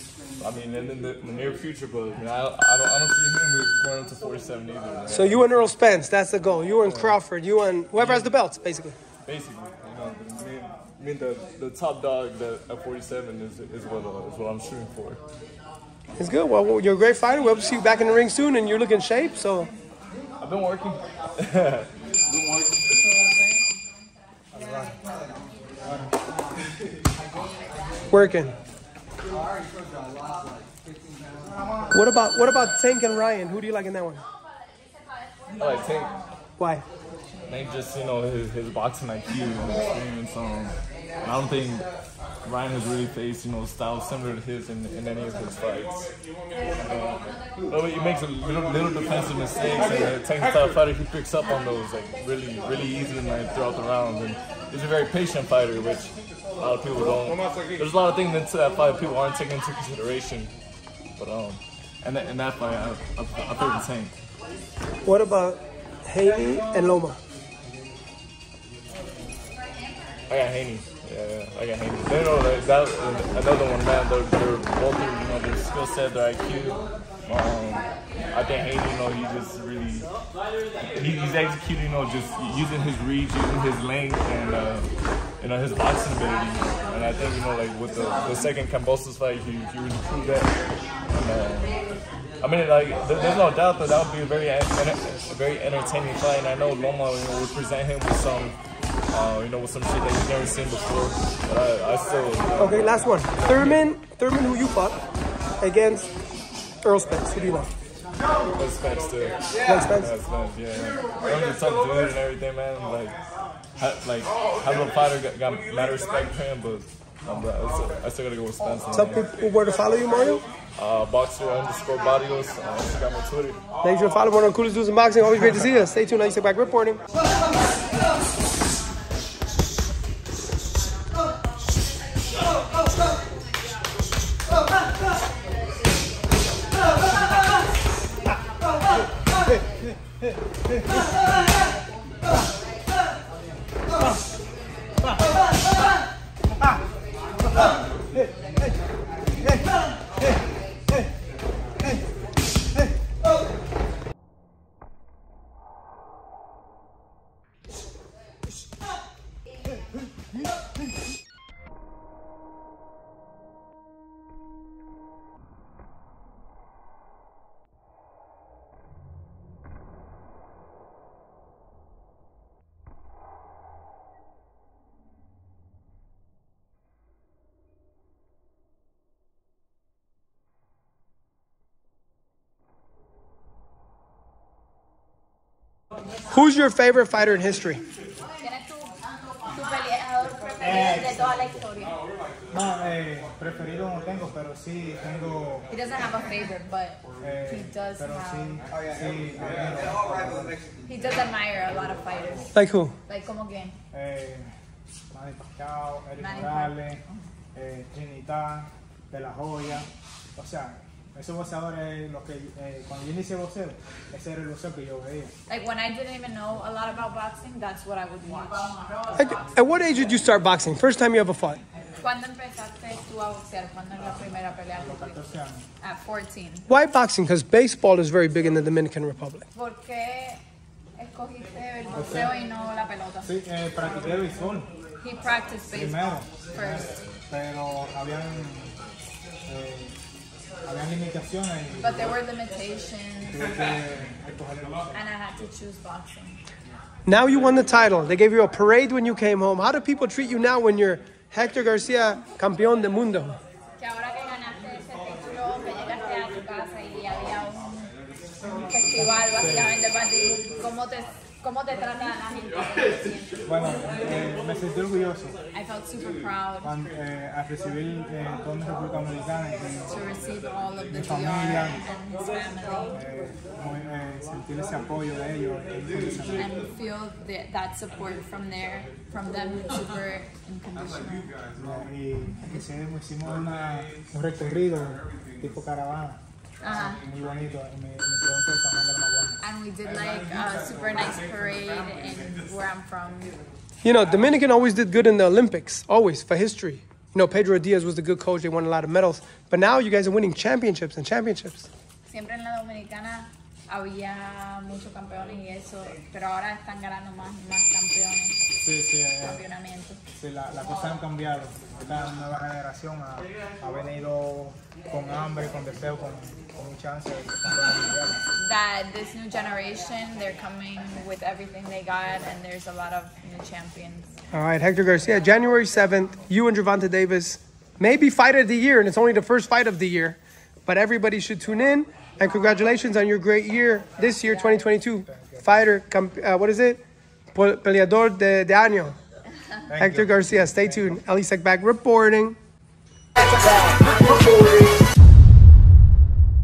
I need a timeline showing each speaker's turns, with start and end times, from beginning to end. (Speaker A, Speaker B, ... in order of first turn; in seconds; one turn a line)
Speaker A: 0.4-5.7
Speaker B: 5.1-8.9
Speaker A: 6.8-7.2
Speaker A: 7.9-8.4
Speaker A: 9.2-15.2
Speaker B: 16.2-19.7
Speaker A: 20.4-21.9
Speaker C: 24.5-25.0
Speaker C: 25.8-26.1
Speaker B: 28.1-28.5
Speaker C: 31.4-31.9
Speaker B: 31.9-34.2
Speaker A: 35.6-36.2
Speaker B: 36.6-36.8
Speaker A: 37.5-41.9
Speaker A: 42.4-46.1
Speaker A: 46.8-60.5
Speaker A: 61.1-64.1
Speaker B: 65.0-67.2
Speaker A: 70.3-80.1
Speaker A: 80.9-84.9
Speaker A: 85.4-90.5
Speaker A: 91.1-91.7
Speaker A: 92.4-98.5
Speaker A: 99.1-103.8
Speaker B: 102.6-105.0
Speaker B: 105.6-106.1
Speaker B: 106.8-107.7
Speaker A: 108.5-113.2
Speaker B: 109.6-110.1
Speaker A: 113.8-119.2
Speaker B: 118.9-120.4
Speaker A: 120.8-123.6
Speaker B: 123.8-127.0
Speaker C: 148.1-148.5
Speaker B: 186.3-187.8
Speaker D: 188.4-192.0
Speaker C: 190.6-191.5
Speaker C: 192.5-195.7
Speaker D: 195.7-198.6
Speaker C: 197.2-200.6
Speaker D: 200.8-202.5
Speaker B: 202.5-202.9
Speaker D: 203.1-203.8
Speaker C: 203.9-204.5
Speaker C: 205.1-207.0
Speaker D: 206.2-207.3
Speaker C: 207.5-215.3
Speaker D: 215.5-218.7
Speaker B: 219.1-221.6
Speaker D: 222.0-225.2
Speaker C: 224.8-225.6
Speaker D: 225.8-226.7
Speaker B: 226.7-229.5
Speaker D: 229.5-230.4
Speaker D: 230.9-233.3
Speaker C: 231.9-232.3
Speaker C: 233.2-234.7
Speaker D: 235.0-236.9
Speaker C: 235.7-238.7
Speaker C: 239.4-239.9
Speaker C: 240.6-242.1
Speaker D: 241.8-243.4
Speaker C: 243.3-245.0
Speaker D: 244.9-246.4
Speaker B: 247.1-253.4
Speaker D: 253.8-257.9
Speaker D: 258.5-263.7
Speaker C: 259.0-259.7
Speaker C: 263.4-265.4
Speaker D: 265.5-266.8
Speaker C: 266.6-270.0
Speaker D: 269.9-273.0
Speaker C: 270.9-271.8
Speaker C: 272.9-276.6
Speaker D: 276.4-281.3
Speaker C: 281.5-289.4
Speaker D: 286.6-287.0
Speaker D: 289.4-293.4
Speaker B: 293.8-301.7
Speaker D: 302.1-308.4
Speaker C: 308.6-309.4
Speaker D: 309.2-310.0
Speaker C: 310.1-318.2
Speaker D: 318.3-324.1
Speaker B: 324.3-336.8
Speaker C: 335.0-335.6
Speaker B: 337.3-339.0
Speaker C: 339.7-341.0
Speaker B: 339.8-342.4